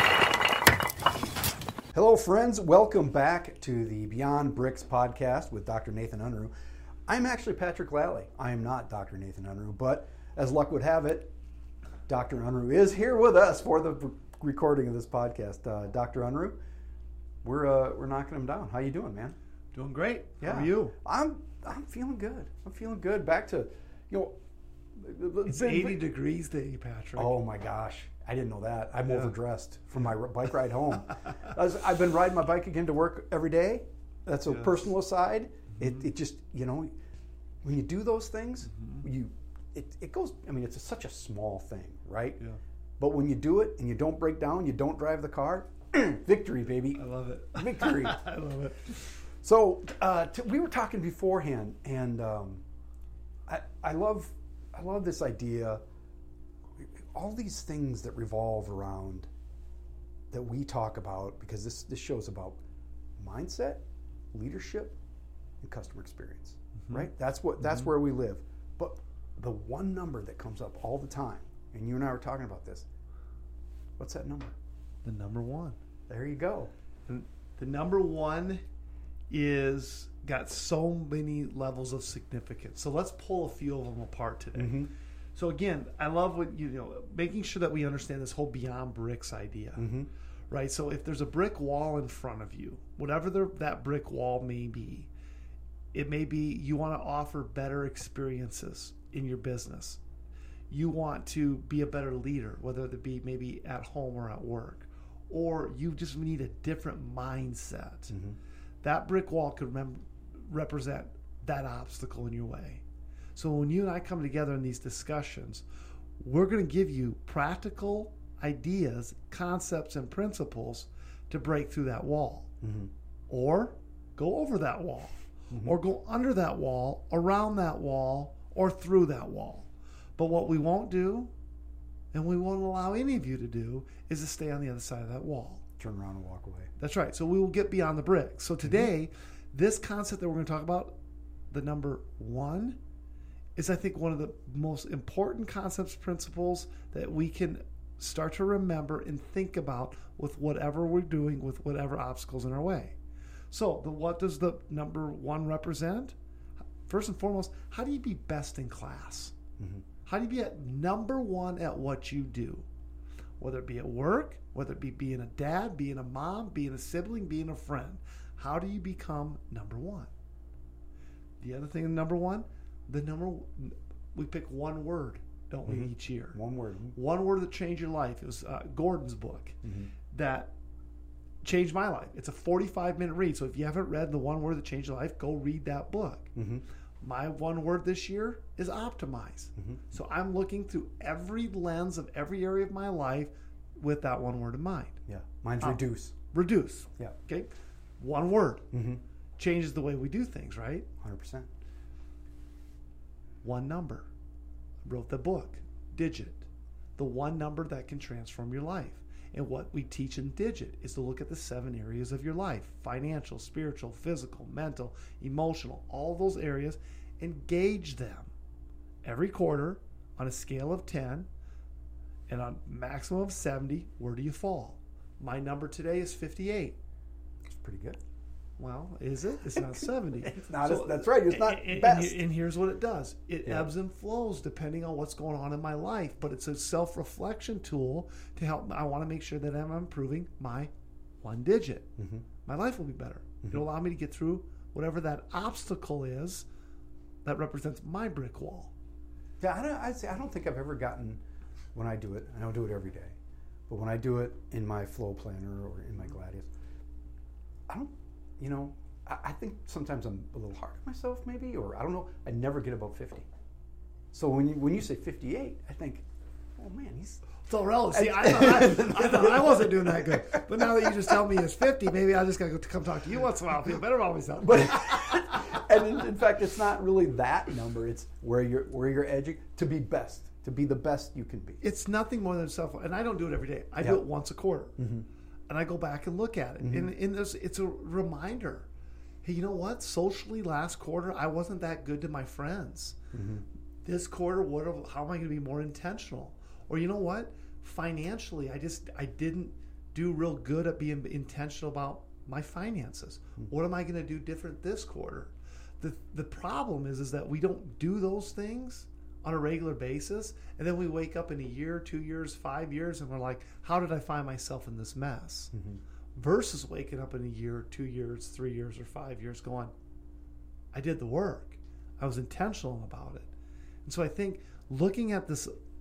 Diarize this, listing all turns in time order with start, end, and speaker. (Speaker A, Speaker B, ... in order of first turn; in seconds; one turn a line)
Speaker A: 1.9-6.5
Speaker A: 7.1-11.3
Speaker A: 12.1-16.6
Speaker A: 17.4-19.4
Speaker B: 19.7-21.0
Speaker A: 20.4-24.4
Speaker A: 25.0-26.1
Speaker B: 25.5-27.4
Speaker A: 27.2-36.9
Speaker B: 29.1-29.4
Speaker B: 34.5-34.8
Speaker B: 35.8-36.0
Speaker A: 37.6-42.4
Speaker B: 38.7-39.1
Speaker A: 43.0-47.0
Speaker B: 46.9-49.1
Speaker A: 47.5-48.3
Speaker A: 49.4-52.6
Speaker A: 53.5-55.8
Speaker A: 56.8-59.3
Speaker A: 60.3-62.6
Speaker A: 63.2-65.0
Speaker A: 65.6-72.9
Speaker B: 66.8-67.9
Speaker A: 74.0-74.5
Speaker B: 75.0-75.8
Speaker A: 76.1-76.7
Speaker B: 77.1-78.6
Speaker B: 79.3-89.9
Speaker A: 84.5-84.9
Speaker A: 89.8-90.1
Speaker B: 90.5-95.1
Speaker B: 95.9-100.0
Speaker B: 100.7-108.2
Speaker A: 108.1-108.4
Speaker B: 108.8-112.8
Speaker B: 113.3-115.7
Speaker B: 116.2-122.5
Speaker A: 122.6-122.9
Speaker B: 123.3-131.3
Speaker A: 125.5-125.8
Speaker B: 132.1-135.6
Speaker A: 135.8-136.7
Speaker B: 136.8-140.9
Speaker A: 138.6-138.9
Speaker B: 141.5-142.8
Speaker B: 143.6-153.0
Speaker B: 153.5-156.2
Speaker B: 156.9-159.4
Speaker A: 159.6-159.9
Speaker B: 160.1-162.7
Speaker B: 163.4-170.1
Speaker B: 171.4-176.4
Speaker A: 175.7-177.0
Speaker B: 176.9-179.6
Speaker A: 179.6-179.9
Speaker B: 180.1-180.5
Speaker B: 181.4-186.3
Speaker A: 186.3-186.6
Speaker B: 187.0-195.0
Speaker A: 189.6-189.8
Speaker A: 195.1-196.2
Speaker B: 195.6-198.7
Speaker A: 198.7-199.0
Speaker B: 199.4-200.9
Speaker A: 201.0-201.5
Speaker B: 203.4-204.1
Speaker B: 204.8-206.5
Speaker B: 207.0-218.3
Speaker B: 219.0-221.3
Speaker B: 222.3-226.8
Speaker A: 227.4-228.0
Speaker B: 228.6-241.9
Speaker A: 229.5-232.2
Speaker A: 233.4-233.7
Speaker A: 242.0-242.3
Speaker B: 242.4-246.5
Speaker B: 247.2-248.7
Speaker A: 249.4-251.2
Speaker A: 251.8-253.2
Speaker A: 253.7-256.5
Speaker A: 257.7-263.3
Speaker A: 264.1-266.1
Speaker A: 266.6-267.3
Speaker B: 267.4-275.6
Speaker A: 267.9-271.2
Speaker A: 274.4-281.6
Speaker B: 281.6-284.8
Speaker A: 284.8-285.1
Speaker B: 285.5-288.7
Speaker A: 286.6-286.9
Speaker B: 289.2-293.0
Speaker A: 293.1-293.5
Speaker B: 293.8-315.5
Speaker A: 315.5-315.8
Speaker B: 316.1-319.7
Speaker B: 320.7-323.3
Speaker B: 323.9-325.5